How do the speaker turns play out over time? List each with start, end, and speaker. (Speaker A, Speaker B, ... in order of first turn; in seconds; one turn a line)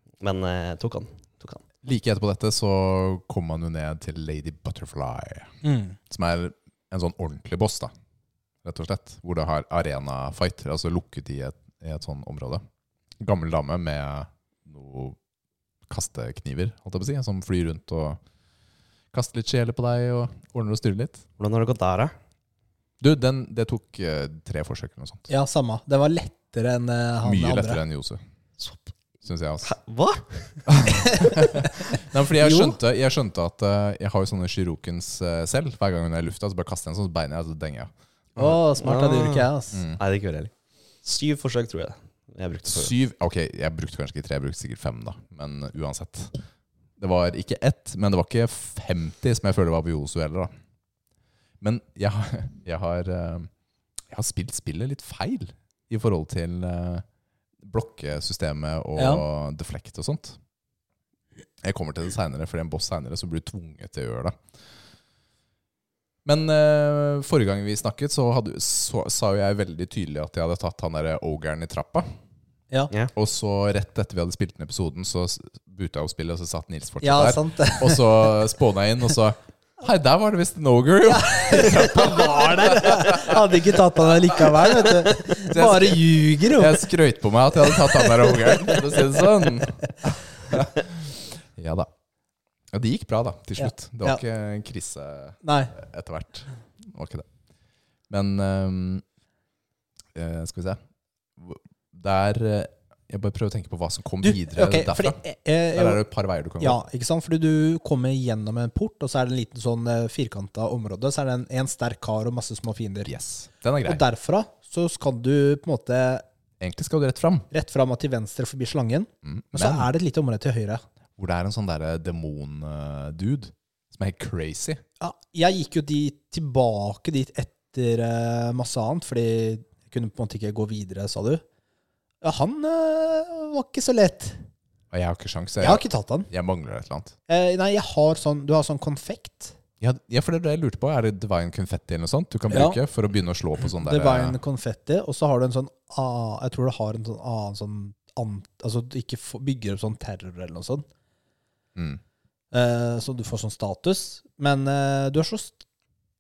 Speaker A: 0.2-1.6
Speaker B: 1.8-5.5
Speaker C: 5.6-6.0
Speaker B: 6.1-7.9
Speaker B: 8.6-12.6
Speaker B: 13.2-15.2
Speaker B: 15.9-18.2
Speaker B: 19.1-21.2
Speaker A: 21.4-22.1
Speaker B: 23.0-25.3
Speaker C: 25.3-27.8
Speaker B: 27.2-28.2
Speaker A: 28.6-28.9
Speaker B: 29.2-29.7
Speaker A: 29.6-30.6
Speaker B: 30.7-38.5
Speaker C: 31.0-31.3
Speaker C: 32.4-32.8
Speaker C: 38.4-39.8
Speaker A: 38.8-40.5
Speaker B: 39.7-40.0
Speaker A: 41.0-42.9
Speaker B: 42.6-46.4
Speaker B: 47.0-50.5
Speaker B: 51.6-53.5
Speaker B: 54.1-57.0
Speaker B: 57.6-60.4
Speaker C: 59.0-59.2
Speaker B: 61.6-64.4
Speaker B: 66.2-72.1
Speaker B: 73.1-83.5
Speaker C: 77.0-78.3
Speaker C: 81.0-86.9
Speaker B: 85.4-91.9
Speaker B: 92.7-97.3
Speaker C: 93.6-94.2
Speaker C: 95.4-95.8
Speaker B: 98.1-99.0
Speaker B: 100.2-100.8
Speaker B: 101.4-105.2
Speaker C: 104.2-106.0
Speaker B: 105.7-106.8
Speaker C: 106.6-113.1
Speaker B: 113.0-114.0
Speaker C: 113.8-116.2
Speaker B: 116.6-117.5
Speaker C: 117.5-120.8
Speaker B: 119.2-119.9
Speaker B: 121.2-124.8
Speaker C: 125.0-131.4
Speaker C: 132.2-134.4
Speaker B: 134.9-137.2
Speaker C: 135.6-136.3
Speaker C: 137.3-139.6
Speaker B: 139.8-144.4
Speaker C: 142.5-142.8
Speaker C: 143.7-150.8
Speaker B: 151.8-152.0
Speaker C: 152.5-155.6